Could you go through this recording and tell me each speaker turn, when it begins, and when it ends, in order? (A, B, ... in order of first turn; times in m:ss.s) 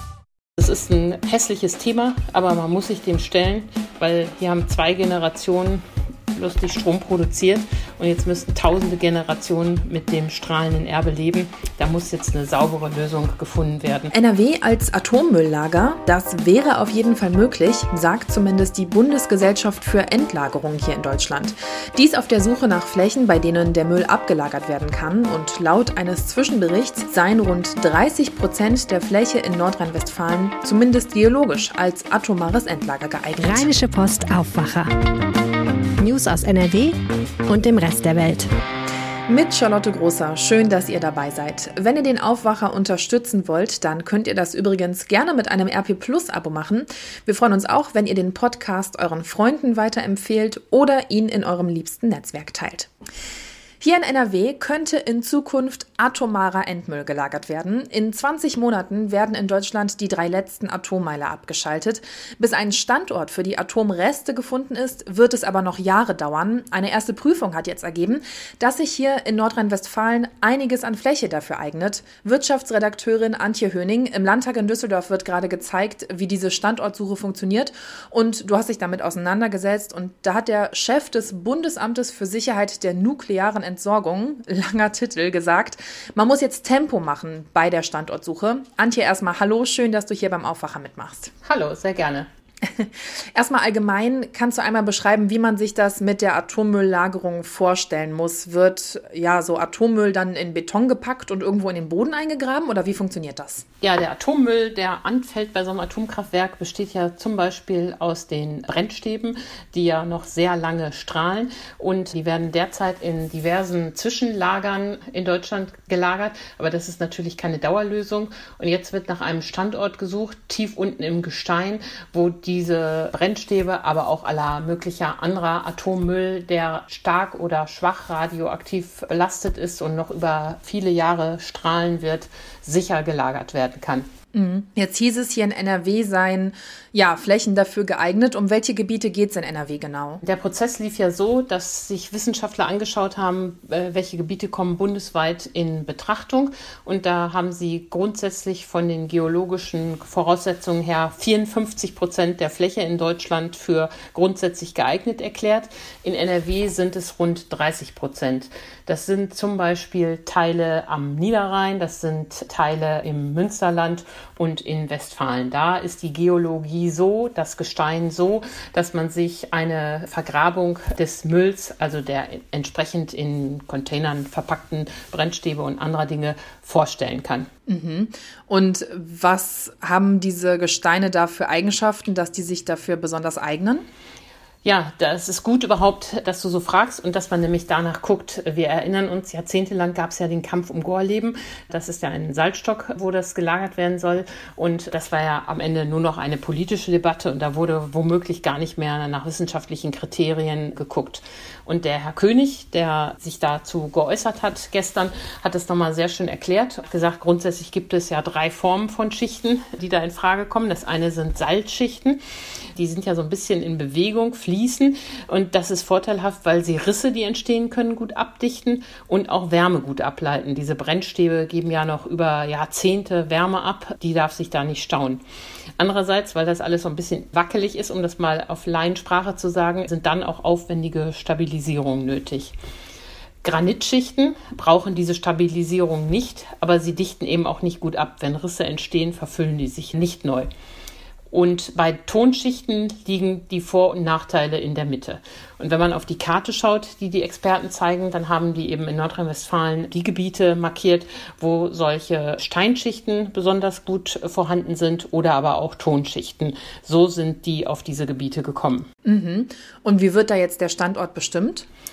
0:00.6-0:05.8 A
0:06.3-0:14.1 A
0:14.1-0:33.7 B
0:33.4-0:34.9 C
0:36.0-0:36.9 C
0:37.5-0:38.4 C
0:39.3-0:52.9 B
0:53.8-1:31.3 B
1:31.4-1:32.3 A
1:32.7-1:43.6 B
1:43.8-2:14.0 A
2:14.3-2:20.2 B
2:20.2-2:57.5 A
2:57.7-3:03.8 B
3:04.6-3:32.2 A
3:32.8-3:45.2 A
3:45.8-3:52.5 A
3:53.4-4:00.5 A
4:01.3-4:18.9 A
4:19.0-4:21.7 B